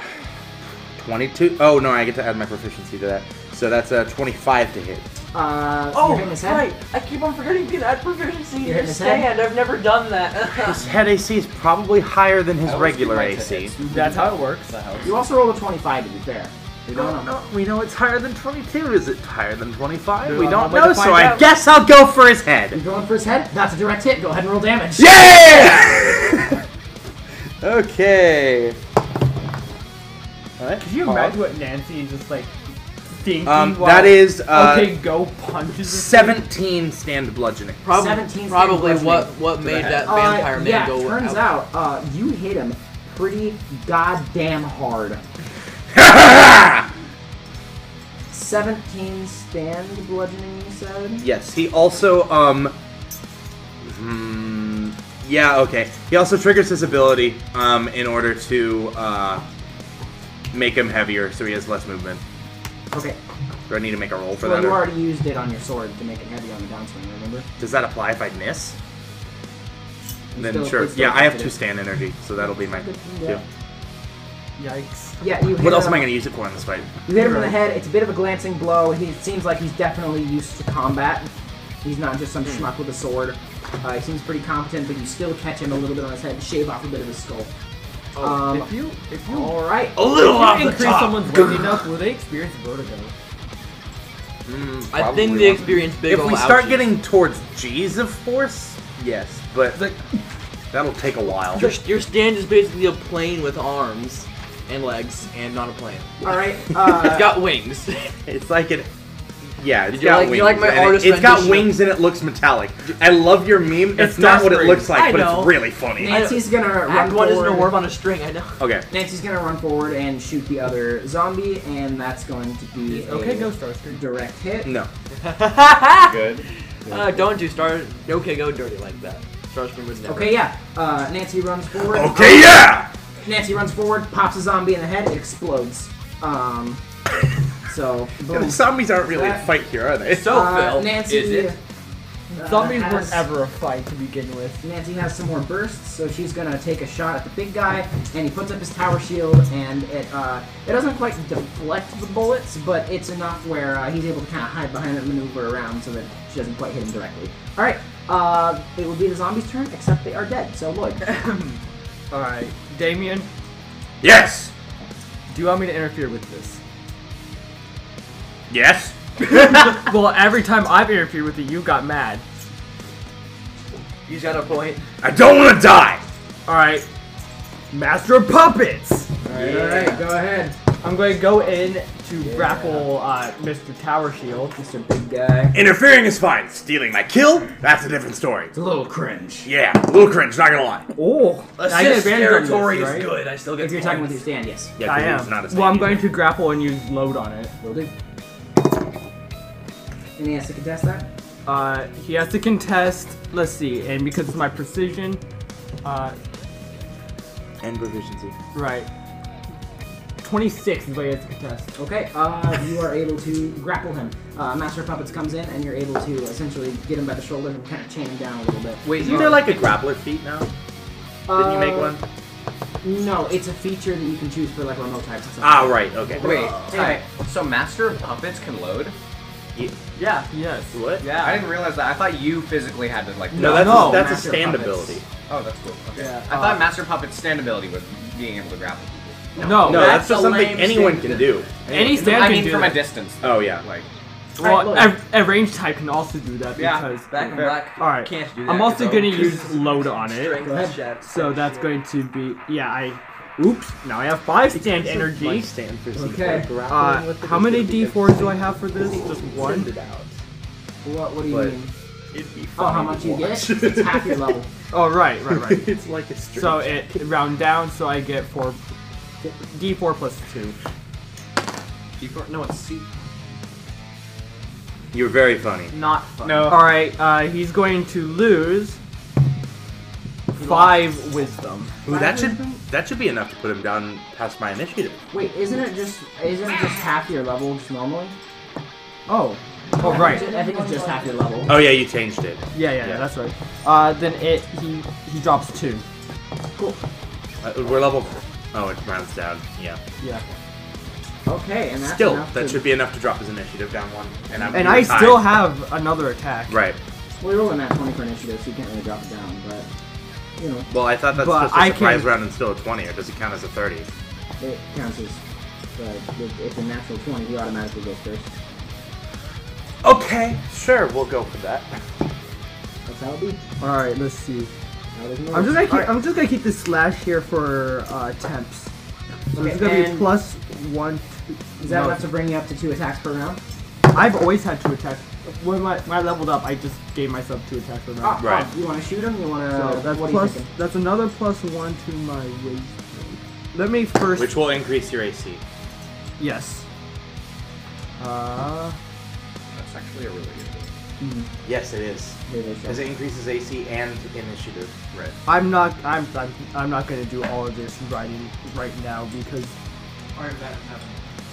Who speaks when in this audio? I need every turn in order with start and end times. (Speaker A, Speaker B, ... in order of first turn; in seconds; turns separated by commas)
Speaker A: 1.0-5.0, Speaker B: 5.3-6.7, Speaker C: 5.9-10.9, Speaker B: 8.6-9.3, Speaker A: 10.6-13.7, Speaker D: 12.6-15.2, Speaker E: 13.9-14.7, Speaker B: 15.1-17.3, Speaker A: 16.9-22.8, Speaker E: 20.3-21.5, Speaker B: 22.7-25.8, Speaker A: 25.0-26.6, Speaker A: 27.6-28.8, Speaker A: 30.6-31.4, Speaker E: 30.8-32.5, Speaker E: 33.2-36.4, Speaker A: 33.4-35.1, Speaker A: 35.9-37.8, Speaker C: 37.8-41.5, Speaker B: 37.9-45.2, Speaker A: 39.7-40.0, Speaker A: 45.9-46.9, Speaker B: 48.3-51.2, Speaker A: 51.2-52.8, Speaker A: 53.8-59.4, Speaker A: 60.5-62.2, Speaker B: 62.9-63.2, Speaker A: 63.7-64.8, Speaker B: 64.4-67.5, Speaker A: 67.6-68.8, Speaker B: 70.3-71.6, Speaker A: 70.4-73.4, Speaker B: 72.4-73.4, Speaker E: 74.6-75.2, Speaker B: 75.2-76.2, Speaker A: 75.6-77.0, Speaker B: 77.1-81.3, Speaker E: 77.2-77.5, Speaker B: 81.8-87.5, Speaker B: 88.2-90.0, Speaker E: 88.2-93.1, Speaker C: 90.0-91.3, Speaker A: 94.5-99.8, Speaker C: 94.9-96.9, Speaker A: 100.7-101.7, Speaker C: 101.5-106.2, Speaker B: 106.2-107.4, Speaker C: 106.8-108.1, Speaker A: 108.3-108.9, Speaker A: 109.6-116.2, Speaker C: 109.9-111.8, Speaker E: 113.9-115.0, Speaker C: 114.9-118.6, Speaker B: 116.0-117.8, Speaker A: 118.6-118.9, Speaker B: 118.9-124.7, Speaker E: 122.8-124.0, Speaker C: 125.2-126.3, Speaker D: 126.0-126.5, Speaker C: 126.9-130.4, Speaker B: 130.1-132.6, Speaker A: 131.9-132.9, Speaker B: 133.2-136.8, Speaker B: 137.7-139.5, Speaker A: 138.3-140.4, Speaker C: 140.1-141.5, Speaker B: 140.2-141.6, Speaker B: 142.3-143.3, Speaker E: 142.3-144.6, Speaker B: 144.6-161.1, Speaker E: 162.1-163.3, Speaker A: 164.0-164.5, Speaker E: 165.3-166.6, Speaker A: 168.5-169.3, Speaker E: 169.2-172.2, Speaker C: 174.1-174.8, Speaker A: 175.0-176.0, Speaker E: 176.5-176.9, Speaker E: 177.7-179.2, Speaker B: 179.2-180.6, Speaker C: 179.4-180.0, Speaker E: 180.8-184.6, Speaker B: 181.3-182.9, Speaker B: 184.6-185.6, Speaker A: 185.5-188.5, Speaker B: 188.5-189.5, Speaker A: 189.4-190.9, Speaker E: 190.9-193.1, Speaker C: 191.6-194.2, Speaker B: 193.6-194.7, Speaker A: 194.8-196.2, Speaker E: 194.8-197.6, Speaker B: 197.6-197.9, Speaker B: 200.2-201.1, Speaker E: 201.5-205.2, Speaker E: 205.8-206.2, Speaker A: 207.6-208.3, Speaker E: 208.5-208.9, Speaker E: 210.2-211.7, Speaker B: 211.8-219.4, Speaker A: 218.9-220.5, Speaker D: 218.9-219.4, Speaker B: 221.3-222.0, Speaker A: 221.3-222.0, Speaker B: 222.8-227.0, Speaker A: 225.4-226.5, Speaker D: 226.2-228.9, Speaker E: 230.0-230.8, Speaker A: 230.7-231.1, Speaker C: 231.0-231.4, Speaker D: 231.0-234.0, Speaker B: 233.3-235.0, Speaker A: 233.3-235.1, Speaker E: 233.5-234.1, Speaker D: 235.3-239.4, Speaker E: 236.0-236.7, Speaker B: 239.4-241.2, Speaker E: 239.4-240.0, Speaker A: 239.6-242.2, Speaker C: 240.0-240.4, Speaker E: 241.7-242.9, Speaker D: 241.7-243.9, Speaker A: 243.2-243.6, Speaker B: 244.4-245.0, Speaker E: 244.4-250.5, Speaker D: 246.6-247.7, Speaker C: 247.1-251.7, Speaker B: 250.4-250.8, Speaker E: 251.0-255.5, Speaker A: 254.5-258.4, Speaker B: 255.9-256.5, Speaker E: 256.6-259.7, Speaker A: 259.3-260.2, Speaker B: 260.8-261.7, Speaker A: 261.3-261.6, Speaker A: 262.2-264.3, Speaker B: 262.6-264.5, Speaker E: 264.7-265.7, Speaker A: 265.3-267.1, Speaker E: 266.3-268.6, Speaker E: 269.2-270.6, Speaker D: 272.0-272.9, Speaker A: 274.9-275.7, Speaker C: 275.7-276.6, Speaker D: 276.2-276.6, Speaker E: 276.4-278.8, Speaker E: 280.3-281.7, Speaker A: 281.9-285.0, Speaker B: 281.9-282.6, Speaker B: 285.1-288.1, Speaker E: 289.1-290.3, Speaker B: 289.8-291.6, Speaker C: 290.0-290.4, Speaker A: 291.5-293.1, Speaker E: 292.5-295.8, Speaker A: 297.4-299.8, Speaker B: 301.3-302.6, Speaker A: 301.8-305.5, Speaker E: 304.5-306.6, Speaker A: 306.5-306.8, Speaker B: 307.2-309.7, Speaker B: 310.4-310.7, Speaker A: 310.7-313.9, Speaker E: 311.1-312.1, Speaker B: 314.4-315.2, Speaker B: 315.8-318.3, Speaker A: 319.8-321.8, Speaker B: 322.9-323.4, Speaker E: 323.6-324.5, Speaker B: 324.9-326.0, Speaker E: 325.3-328.7, Speaker E: 329.3-332.1, Speaker B: 329.3-330.2, Speaker B: 331.6-333.4, Speaker E: 333.9-338.3, Speaker B: 338.0-340.5, Speaker A: 338.2-338.5, Speaker E: 339.5-344.3, Speaker A: 344.1-345.4, Speaker E: 346.2-346.6, Speaker E: 348.0-348.8, Speaker D: 349.5-350.7, Speaker B: 351.0-351.3, Speaker A: 351.4-354.7, Speaker B: 352.3-352.9, Speaker D: 354.9-355.2, Speaker E: 355.3-359.5, Speaker C: 360.1-361.0